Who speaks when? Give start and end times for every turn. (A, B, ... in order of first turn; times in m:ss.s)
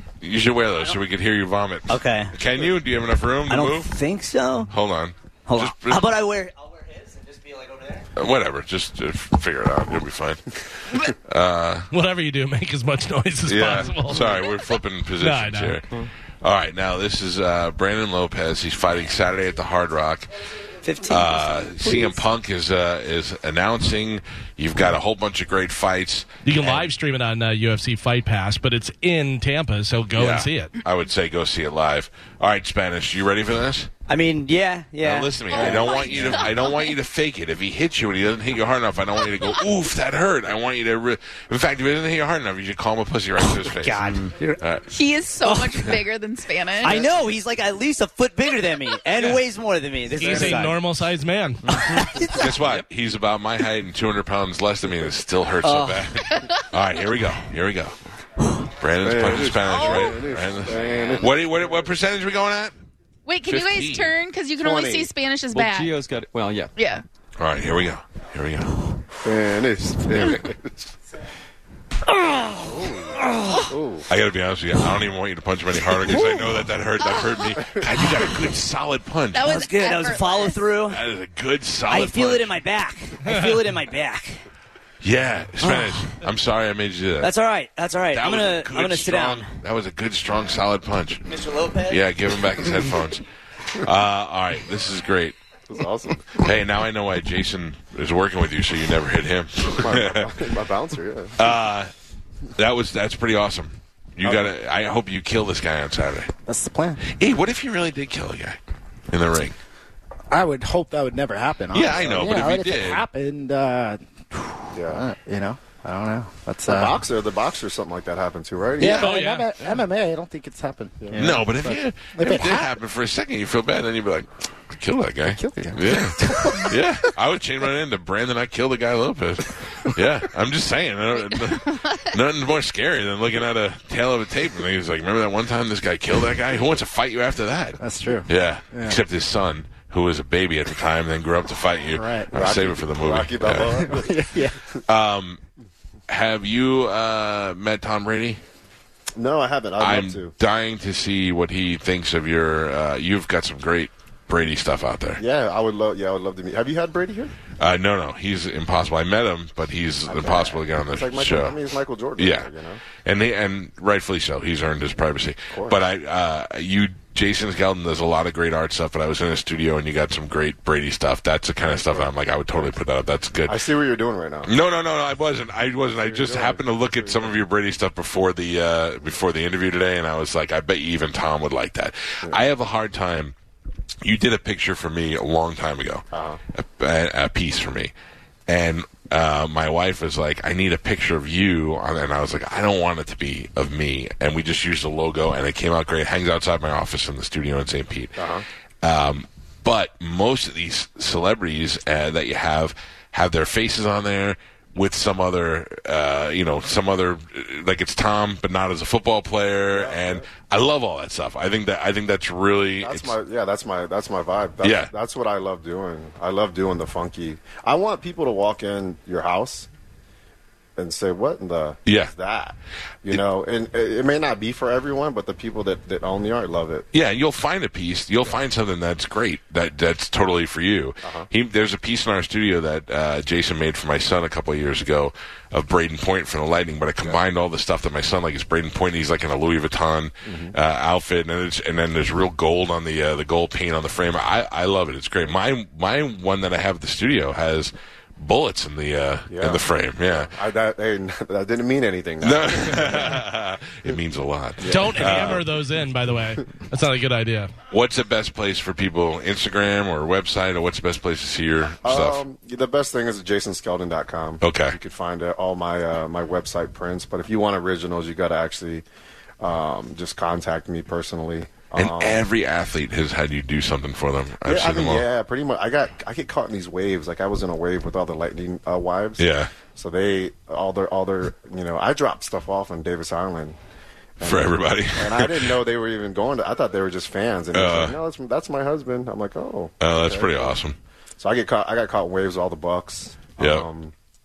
0:00.2-0:03.9 A
0:01.9-0:02.4 B
0:03.5-0:04.7 B
0:04.7-0:06.1 A
0:05.5-0:08.1 B
0:08.2-0:11.9 A
0:11.9-0:14.4 C
0:13.5-0:20.3 A
0:15.2-0:15.8 C
0:20.8-0:22.2 B
0:21.1-0:26.9 A
0:26.4-0:30.8 C
0:30.2-0:33.9 A
0:34.1-0:36.3 B
0:35.0-0:44.8 A
0:35.5-0:37.0 D
0:43.6-0:44.6 B
0:44.0-0:44.4 E
0:44.9-0:47.1 D
0:45.4-0:46.0 B
0:46.8-0:50.8 B
0:50.2-0:51.8 C
0:50.2-0:50.7 F
0:51.7-0:52.1 E
0:51.7-0:52.6 B
0:52.3-0:58.0 A
0:55.6-0:56.1 B
0:56.2-0:56.7 D
0:58.8-1:02.7 A
0:59.0-1:01.6 F
0:59.7-1:00.2 D
1:03.3-1:05.9 D
1:03.5-1:04.2 A
1:04.6-1:05.1 F
1:05.5-1:06.7 E
1:06.8-1:07.0 D
1:07.4-1:08.8 A
1:09.2-1:10.8 F
1:12.2-1:12.6 B
1:12.7-1:14.1 F
1:14.1-1:19.5 A
1:16.0-1:16.7 B
1:17.0-1:17.7 D
1:19.3-1:20.7 D
1:19.4-1:21.0 B
1:20.9-1:22.6 A
1:21.9-1:24.4 B
1:25.0-1:27.3 A
1:25.6-1:26.1 B
1:27.2-1:29.6 B
1:28.1-1:31.3 A
1:31.3-1:32.0 B
1:31.8-1:35.4 A
1:35.7-1:36.4 F
1:36.3-1:40.3 A
1:39.7-1:41.5 F
1:41.4-1:41.9 A
1:42.6-1:46.3 A
1:46.5-1:47.0 G
1:47.1-1:48.6 A
1:49.1-1:49.6 A
1:50.3-1:57.0 G
1:51.7-1:53.0 A
1:54.7-1:55.0 F
1:56.7-1:59.0 F
1:58.8-2:02.7 G
1:58.8-1:59.2 A
1:58.8-1:59.5 C
2:01.2-2:24.0 A
2:05.4-2:06.8 G
2:11.3-2:12.1 D
2:17.8-2:19.0 G
2:21.9-2:22.3 G
2:22.3-2:24.8 F
2:23.8-2:24.6 G
2:24.9-2:25.4 A
2:26.1-2:28.4 A
2:29.2-2:30.3 F
2:29.8-2:35.2 A
2:35.2-2:37.3 F
2:37.6-2:41.6 A
2:40.1-2:42.8 F
2:42.2-2:42.5 A
2:43.0-2:53.6 A
2:45.5-2:45.8 F
2:51.6-2:52.7 F
2:53.5-2:54.5 F
2:54.5-3:03.4 A
2:56.0-2:57.4 F
3:04.0-3:06.0 A
3:06.1-3:06.4 F
3:06.6-3:07.9 A
3:08.5-3:33.2 A
3:18.2-3:18.4 F
3:29.6-3:30.3 F
3:32.8-3:39.7 F
3:34.6-3:34.9 A
3:40.8-3:46.9 F
3:41.9-3:42.1 A
3:46.9-4:10.3 A
3:51.0-3:51.3 F
4:00.2-4:00.6 F
4:09.3-4:13.2 F
4:12.2-4:15.5 A
4:14.6-4:15.4 F
4:14.7-4:17.5 C
4:17.7-4:22.2 A
4:21.8-4:28.8 F
4:24.4-4:24.8 A
4:29.4-4:32.2 F
4:31.8-4:35.1 A
4:34.4-4:43.6 F
4:39.2-4:39.5 A
4:44.2-4:50.6 F
4:44.2-4:45.5 A
4:47.5-4:48.0 A
4:49.8-4:50.8 A
4:51.2-4:53.9 F
4:53.4-4:53.7 A